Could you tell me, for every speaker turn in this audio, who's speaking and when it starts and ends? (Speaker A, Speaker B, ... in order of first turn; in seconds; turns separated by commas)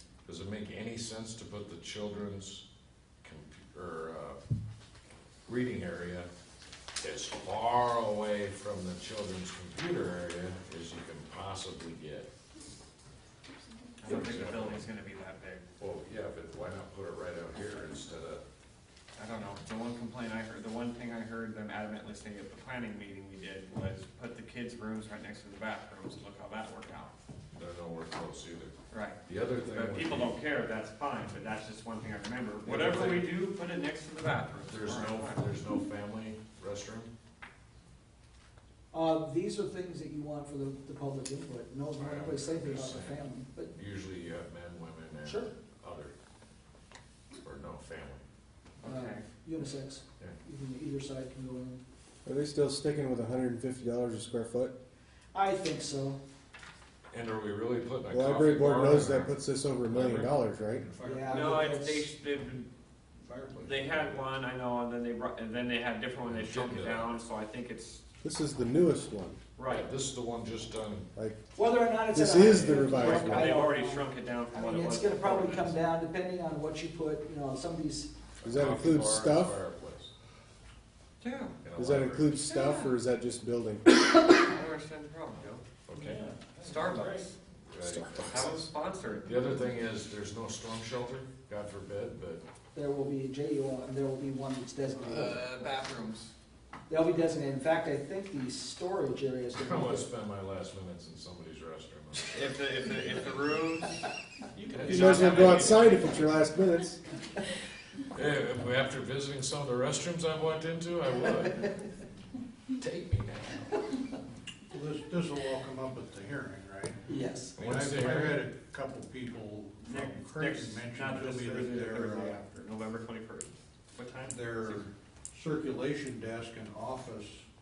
Speaker A: 0.2-2.6, Speaker A: 3.2-4.4, Speaker A: 5.5-6.3, Speaker A: 7.0-12.3, Speaker B: 14.0-15.7, Speaker A: 14.1-14.9, Speaker A: 15.8-18.4, Speaker B: 19.2-27.1, Speaker A: 27.6-28.7, Speaker B: 28.9-35.5, Speaker A: 29.2-30.4, Speaker A: 32.6-33.4, Speaker A: 34.7-37.1, Speaker C: 38.9-43.7, Speaker A: 42.0-46.1, Speaker C: 45.2-45.5, Speaker A: 47.4-48.2, Speaker B: 48.8-49.2, Speaker C: 48.8-51.8, Speaker D: 52.2-54.8, Speaker C: 55.3-56.2, Speaker A: 57.1-59.4, Speaker D: 58.1-60.9, Speaker A: 59.9-60.3, Speaker E: 60.8-61.5, Speaker C: 61.0-62.1, Speaker B: 61.3-62.7, Speaker E: 63.2-64.1, Speaker B: 63.6-68.0, Speaker A: 66.3-67.2, Speaker D: 68.2-69.4, Speaker B: 69.6-69.9, Speaker A: 69.7-71.1, Speaker C: 71.5-78.1, Speaker D: 72.1-73.7, Speaker A: 72.5-72.9, Speaker B: 72.9-75.8, Speaker A: 78.4-80.1, Speaker D: 78.4-79.6, Speaker B: 81.2-81.6, Speaker A: 81.6-82.4, Speaker D: 81.8-83.8, Speaker B: 84.3-87.3, Speaker A: 85.9-86.3, Speaker A: 87.6-88.7, Speaker B: 88.3-89.6, Speaker A: 89.2-92.4, Speaker C: 92.7-95.5, Speaker B: 95.3-95.9, Speaker C: 96.9-100.1, Speaker A: 99.5-102.6, Speaker B: 102.3-106.3, Speaker A: 104.7-106.1, Speaker D: 104.9-107.0, Speaker A: 108.1-111.9, Speaker A: 112.8-113.8, Speaker E: 114.7-122.4, Speaker C: 117.1-117.6, Speaker A: 117.6-118.5, Speaker B: 119.9-124.9, Speaker E: 124.3-127.5